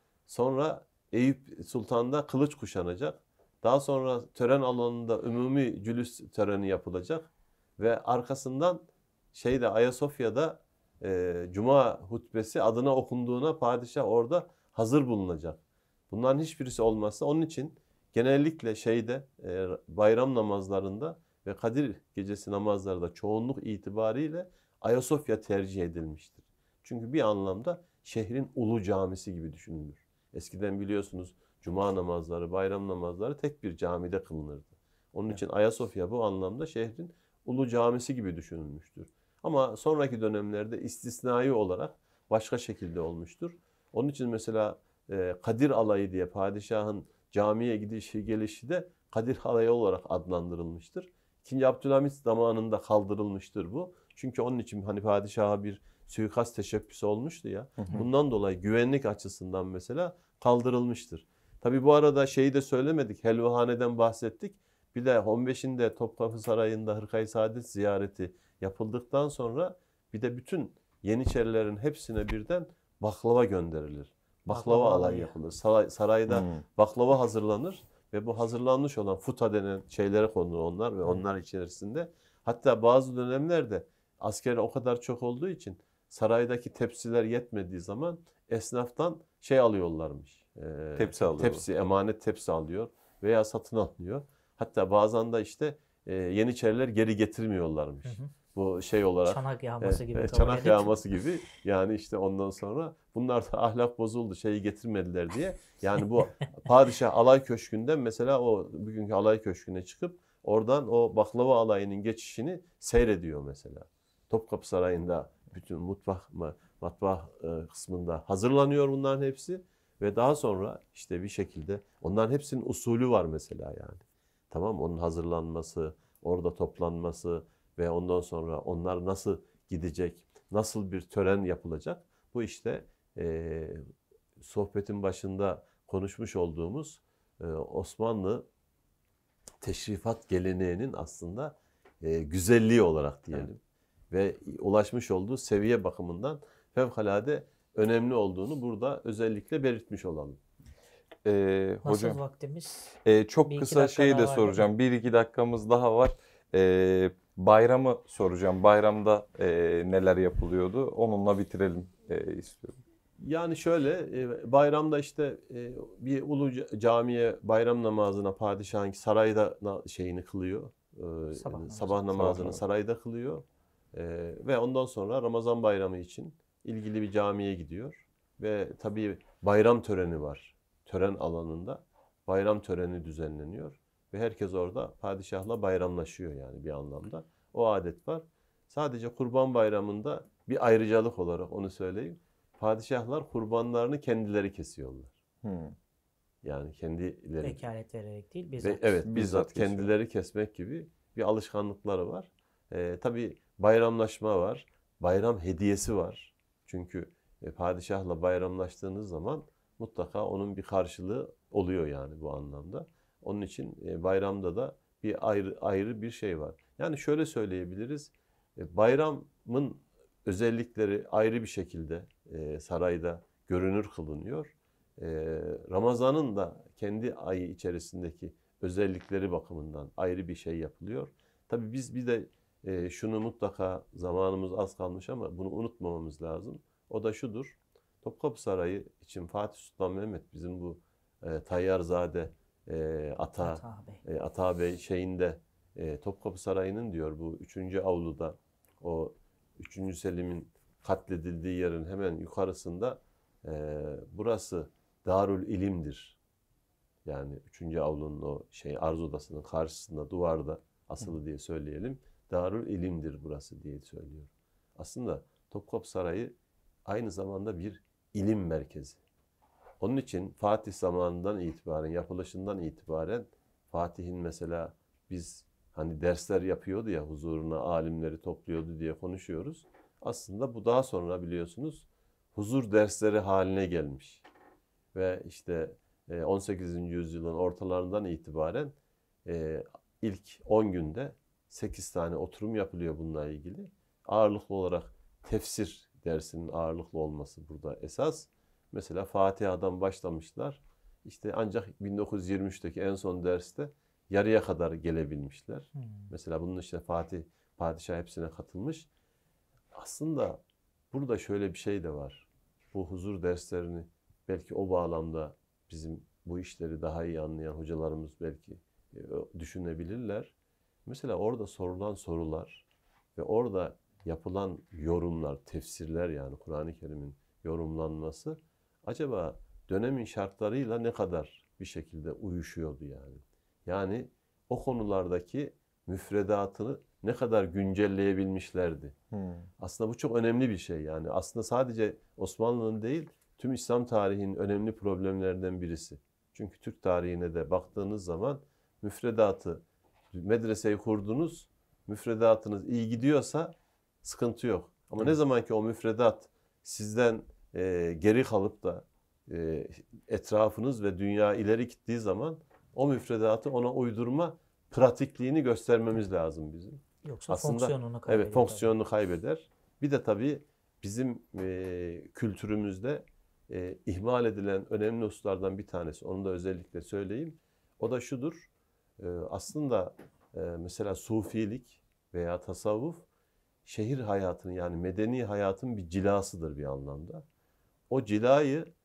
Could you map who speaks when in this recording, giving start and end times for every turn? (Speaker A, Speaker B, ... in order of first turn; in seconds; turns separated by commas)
Speaker A: 0.3-133.8, Speaker B: 57.8-58.0, Speaker C: 74.5-75.3, Speaker B: 76.3-76.6, Speaker B: 91.0-91.6, Speaker C: 98.0-98.3, Speaker C: 99.2-101.0, Speaker A: 134.4-138.4, Speaker A: 139.6-143.6, Speaker A: 144.1-150.4, Speaker B: 151.2-152.2, Speaker C: 151.8-154.6, Speaker B: 153.0-162.8, Speaker A: 163.2-195.1, Speaker C: 171.4-172.2, Speaker B: 172.1-172.6, Speaker B: 195.4-195.7, Speaker A: 196.4-197.6, Speaker C: 197.4-199.0, Speaker A: 198.6-256.2, Speaker B: 199.0-199.9, Speaker C: 243.4-244.0, Speaker A: 257.0-266.3, Speaker A: 266.9-269.0, Speaker A: 269.8-284.2, Speaker A: 284.9-308.9, Speaker C: 305.8-306.1, Speaker A: 309.7-320.3, Speaker A: 320.9-338.9, Speaker B: 339.1-339.5, Speaker A: 339.6-383.0, Speaker C: 367.0-368.8, Speaker A: 383.6-387.2, Speaker A: 387.9-388.7